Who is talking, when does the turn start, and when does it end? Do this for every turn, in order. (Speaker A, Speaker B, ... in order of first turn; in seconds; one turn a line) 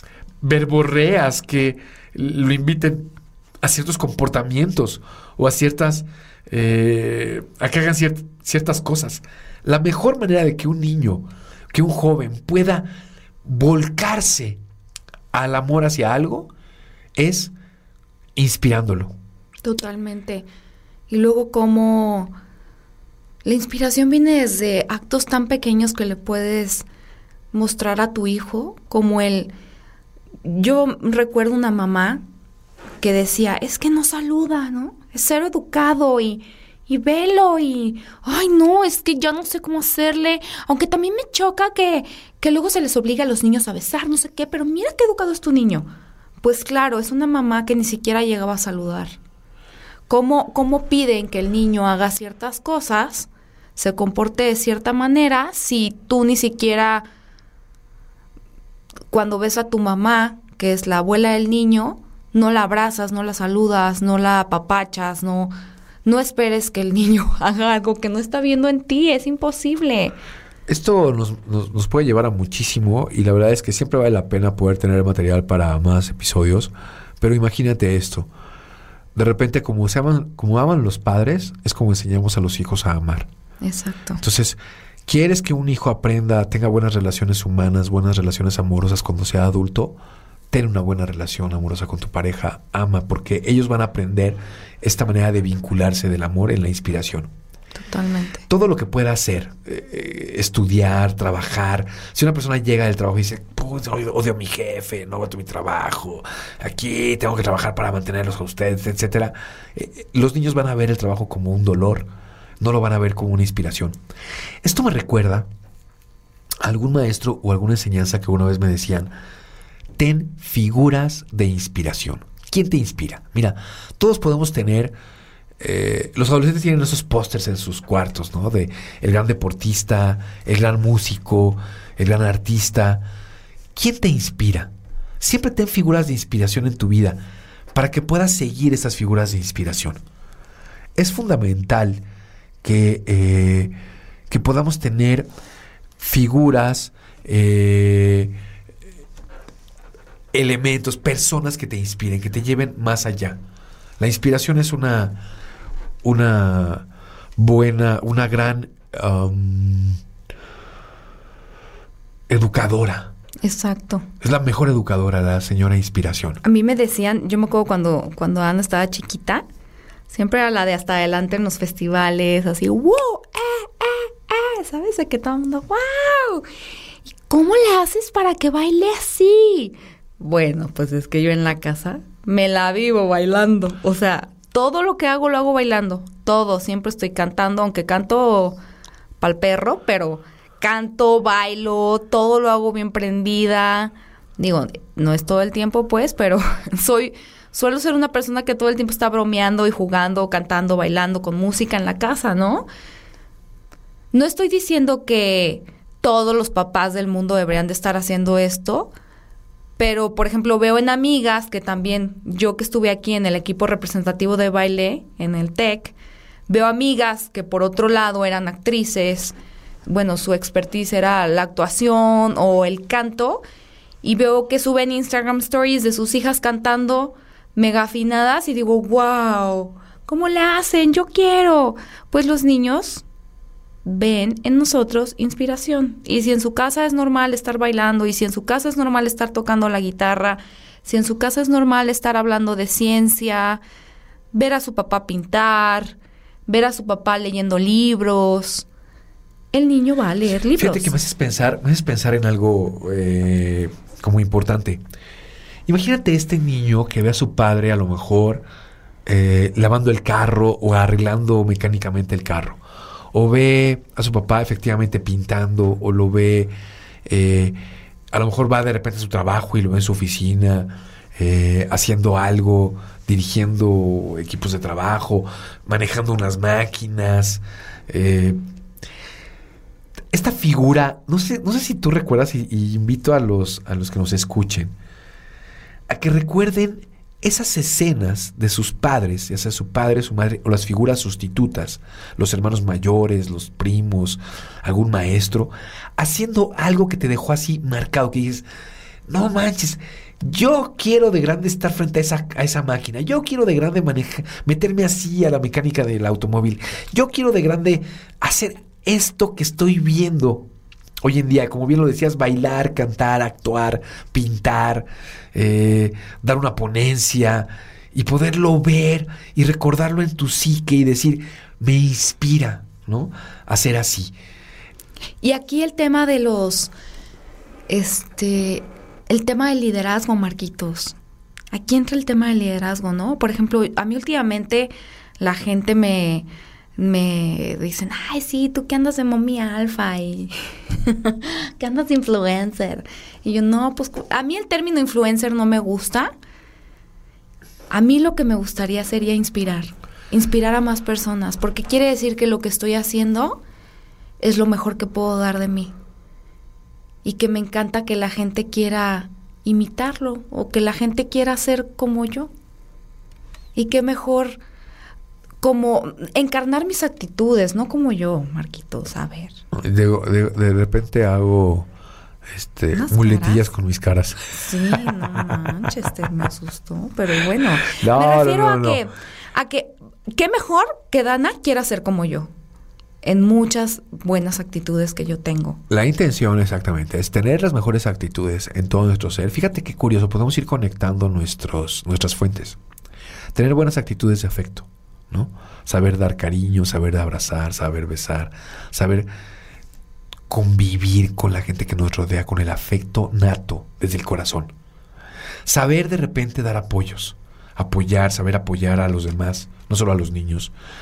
Speaker A: 0.4-3.1
Speaker A: 3.6-12.9
Speaker A: 13.4-14.6
Speaker A: 15.3-16.5
Speaker A: 17.1-17.5
Speaker A: 18.4-19.1
Speaker B: 19.6-20.5
Speaker B: 21.1-22.4
Speaker B: 23.4-26.9
Speaker B: 27.5-29.5
Speaker B: 30.4-32.2
Speaker B: 33.0-45.9
Speaker B: 46.4-49.1
Speaker B: 50.1-57.1
Speaker B: 59.1-65.5
Speaker B: 66.0-70.2
Speaker A: 70.7-78.3
Speaker A: 79.1-83.3
Speaker B: 83.6-84.2
Speaker A: 84.2-90.0
Speaker A: 90.5-97.3
Speaker B: 97.8-98.4
Speaker A: 98.5-112.1
Speaker A: 112.6-114.0
Speaker A: 114.6-115.5
Speaker A: 116.6-119.1
Speaker A: 120.0-124.9
Speaker A: 125.6-133.1
Speaker A: 133.7-137.2
Speaker A: 137.7-140.0
Speaker A: 140.9-142.0
Speaker A: 142.6-143.8
Speaker A: 144.3-145.3
Speaker A: 146.0-148.3
Speaker A: 150.3-153.4
Speaker A: 154.0-155.2
Speaker A: 156.0-156.9
Speaker A: 157.4-160.0
Speaker A: 162.3-163.1
Speaker B: 163.4-164.1
Speaker A: 164.2-166.4
Speaker B: 166.4-169.4
Speaker B: 170.1-176.4
Speaker B: 177.1-188.6
Speaker B: 189.2-202.7
Speaker B: 204.1-208.9
Speaker B: 209.8-215.9
Speaker B: 216.5-219.4
Speaker B: 219.9-223.4
Speaker B: 224.0-233.1
Speaker B: 233.8-243.6
Speaker B: 244.3-248.7
Speaker B: 249.5-250.9
Speaker A: 250.6-254.8
Speaker A: 255.7-258.4
Speaker A: 259.1-262.6
Speaker A: 263.1-266.5
Speaker A: 267.1-267.6
Speaker A: 268.1-278.4
Speaker A: 280.1-284.7
Speaker A: 285.9-298.4
Speaker A: 299.1-310.5
Speaker A: 311.0-324.1
Speaker B: 325.2-326.7
Speaker B: 327.7-331.0
Speaker B: 331.5-346.1
Speaker B: 347.7-353.4
Speaker B: 354.2-355.7
Speaker B: 357.0-362.3
Speaker B: 363.6-364.4
Speaker B: 365.4-369.4
Speaker A: 369.5-371.7
Speaker A: 372.3-375.4
Speaker B: 372.7-373.4
Speaker B: 374.3-382.3
Speaker A: 377.7-378.8
Speaker B: 383.0-385.6
Speaker A: 385.7-392.6
Speaker A: 393.3-399.1
Speaker A: 400.3-404.5
Speaker A: 405.4-410.5